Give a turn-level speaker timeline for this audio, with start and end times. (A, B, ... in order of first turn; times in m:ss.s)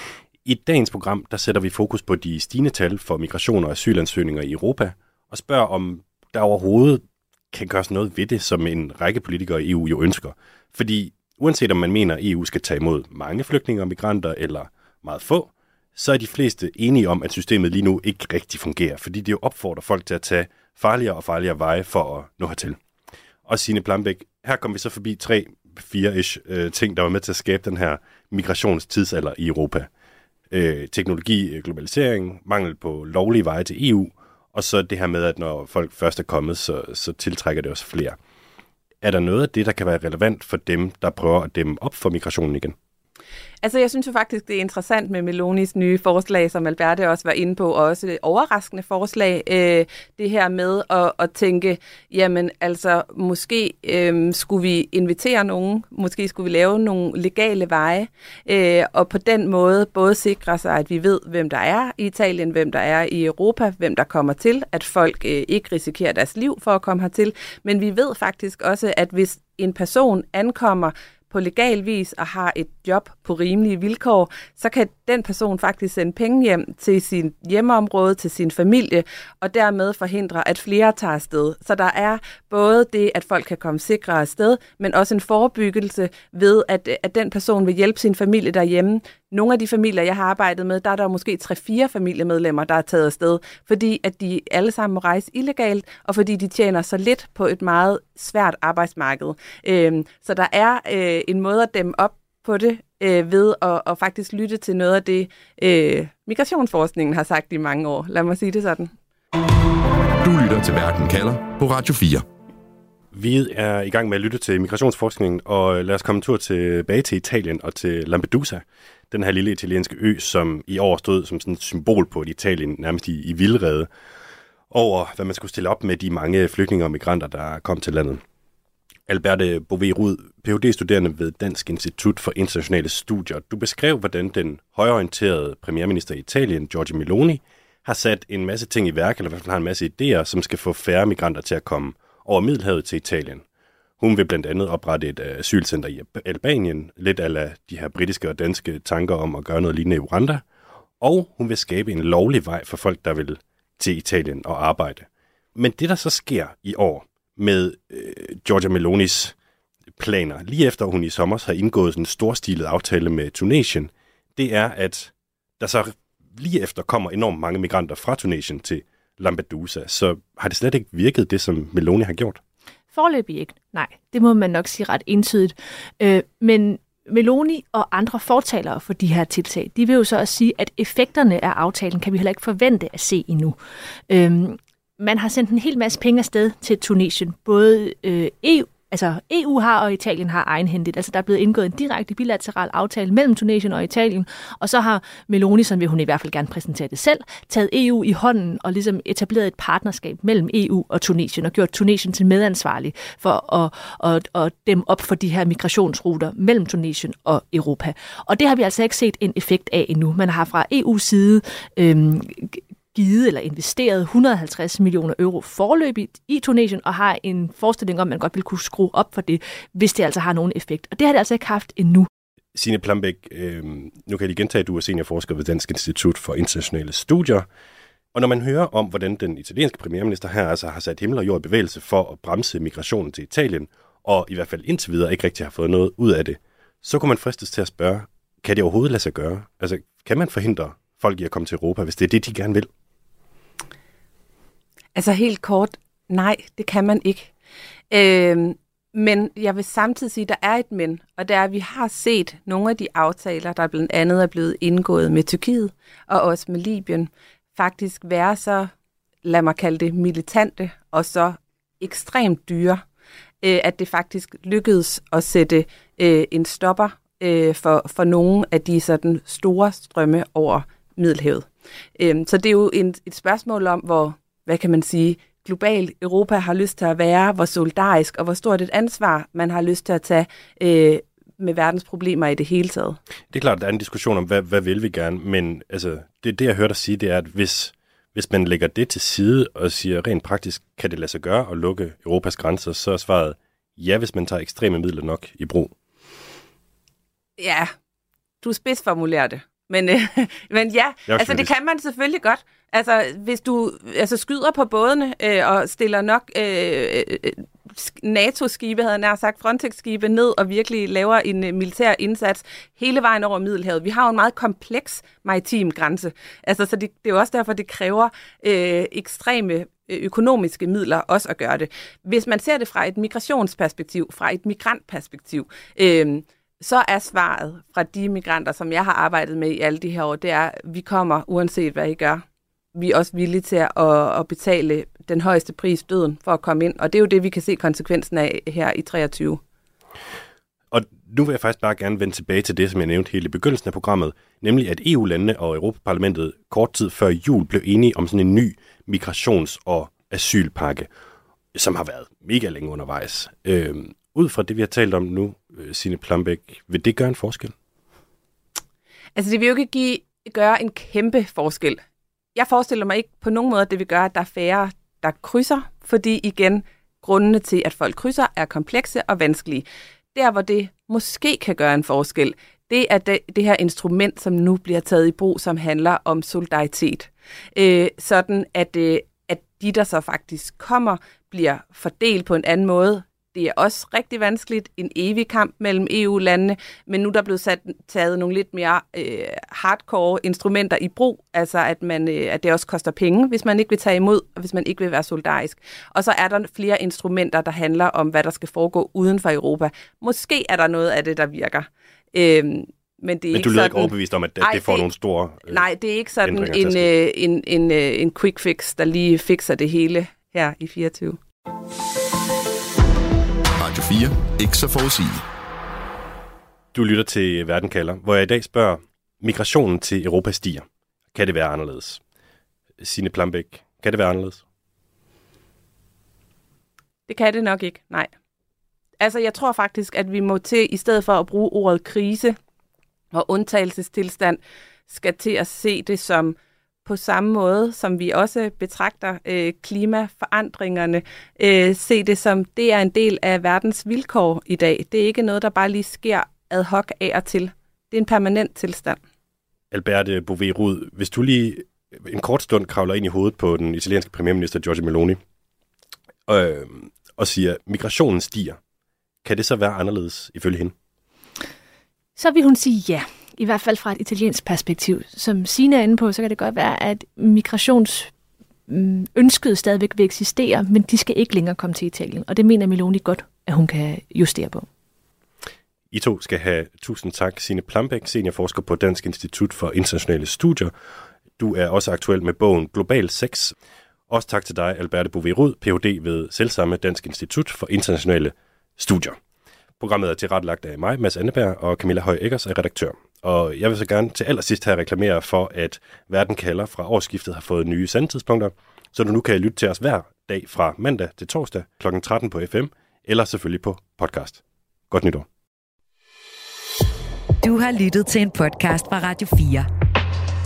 0:00.4-0:22.8 A
0:23.4-0:29.9 A
0:30.5-0:38.2 A
0:39.0-0:42.8 A
0:43.6-1:48.9 B
1:50.2-1:52.2 C
1:53.1-2:03.9 A
2:04.7-2:08.2 A
2:09.1-2:23.4 A
2:24.0-2:30.4 A
2:31.0-2:39.3 A
2:40.0-2:52.4 A
2:52.9-3:03.6 D
3:04.1-3:42.1 D
3:42.5-3:47.5 A
3:48.1-4:02.7 A
4:04.9-4:07.3 B
4:07.9-4:18.7 B
4:19.2-4:22.8 B
4:23.4-4:31.4 B
4:32.0-4:43.0 B
4:43.3-4:55.7 A
4:57.4-4:57.7 B
4:58.4-5:32.2 B
5:01.1-5:01.5 A
5:32.7-5:39.4 B
5:40.7-5:50.9 A
5:51.5-5:57.5 A
5:59.1-6:01.8 B
6:02.3-6:44.8 B
6:43.3-6:45.6 A
6:45.5-6:51.2 B
6:46.2-6:46.9 A
6:53.6-6:55.2 C
6:56.7-7:02.0 A
7:02.8-7:04.4 A
7:07.1-7:08.1 B
7:09.0-7:12.4 B
7:13.1-7:29.0 B
7:29.7-7:35.2 A
7:36.3-7:38.6 A
7:39.2-7:40.7 A
7:42.2-7:48.1 D
7:48.7-7:54.6 D
7:55.9-8:00.7 A
8:01.4-8:03.5 A
8:04.1-8:09.2 A
8:09.8-8:25.3 A
8:27.4-8:29.7 E